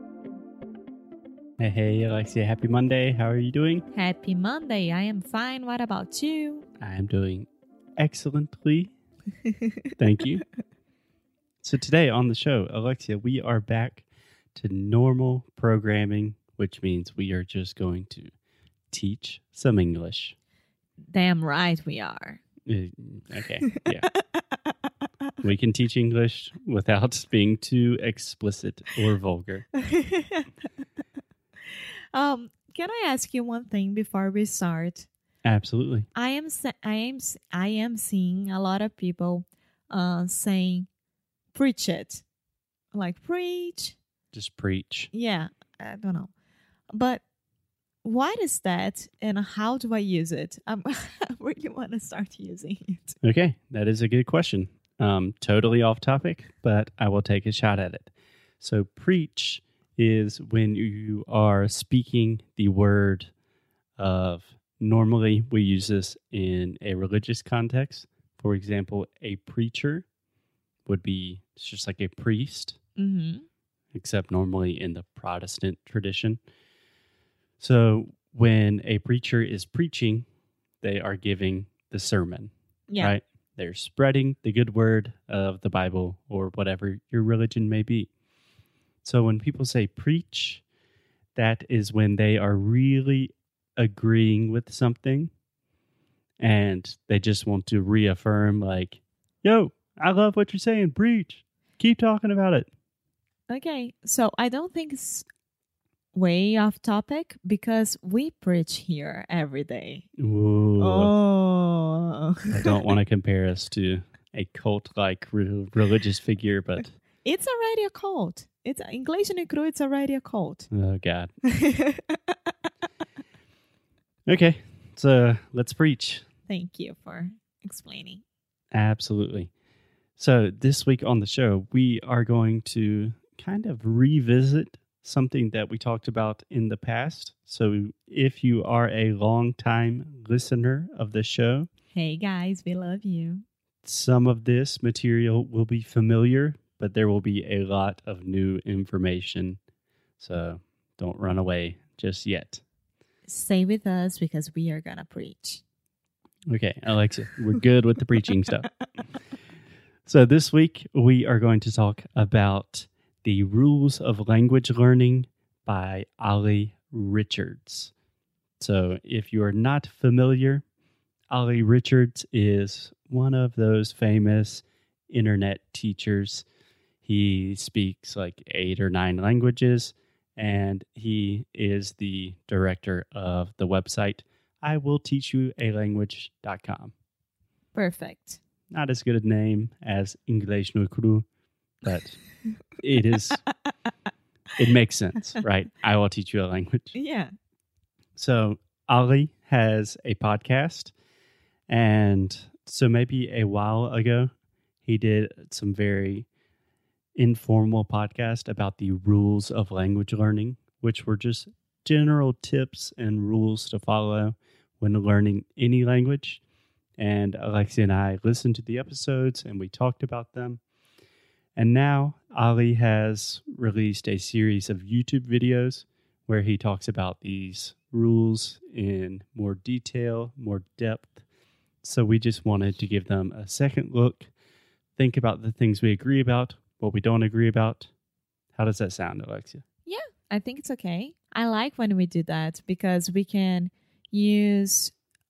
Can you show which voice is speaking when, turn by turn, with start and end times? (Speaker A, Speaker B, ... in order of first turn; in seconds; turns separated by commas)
Speaker A: 1.6-3.9, Speaker B: 3.9-6.7, Speaker A: 6.8-8.9, Speaker A: 10.0-10.4, Speaker A: 11.6-18.3, Speaker A: 18.9-20.4, Speaker B: 21.1-22.4, Speaker A: 22.7-24.1, Speaker A: 25.4-29.7, Speaker B: 29.9-30.5, Speaker B: 32.1-35.1, Speaker A: 35.4-36.1, Speaker B: 36.1-40.9, Speaker B: 41.5-42.2, Speaker B: 42.9-44.0, Speaker A: 44.3-45.1, Speaker B: 45.1-46.3, Speaker B: 46.9-47.2, Speaker B: 48.0-53.2, Speaker A: 53.2-63.3, Speaker A: 64.0-70.1, Speaker A: 70.9-72.8, Speaker B: 73.0-73.5, Speaker A: 73.9-76.4, Speaker A: 77.6-80.2, Speaker A: 80.8-88.1, Speaker B: 82.9-83.2, Speaker A: 89.0-90.6, Speaker A: 91.4-95.3, Speaker A: 96.4-102.7, Speaker B: 103.5-105.2, Speaker B: 106.1-110.1, Speaker A: 110.2-111.1, Speaker B: 110.8-112.5, Speaker A: 112.5-117.0, Speaker B: 117.2-120.7, Speaker A: 120.7-121.3, Speaker B: 121.5-122.2, Speaker A: 124.3-126.2, Speaker B: 126.5-128.2, Speaker A: 128.7-129.5, Speaker A: 130.2-141.7, Speaker B: 141.9-143.4, Speaker A: 143.8-149.6, Speaker A: 150.2-152.6, Speaker B: 153.3-155.6, Speaker A: 156.5-158.7, Speaker A: 160.1-167.9, Speaker A: 168.6-170.6, Speaker A: 171.3-176.4, Speaker A: 177.0-186.9, Speaker B: 187.8-188.4, Speaker A: 188.7-191.3, Speaker A: 191.8-192.2, Speaker A: 192.8-193.4, Speaker A: 194.6-196.9, Speaker B: 196.9-197.3, Speaker A: 198.2-200.9, Speaker A: 201.7-204.3, Speaker A: 204.8-206.3, Speaker A: 207.2-216.4, Speaker A: 217.0-220.6, Speaker A: 221.6-231.2, Speaker A: 231.8-234.3, Speaker A: 235.0-237.9, Speaker A: 238.6-239.6, Speaker B: 239.9-244.9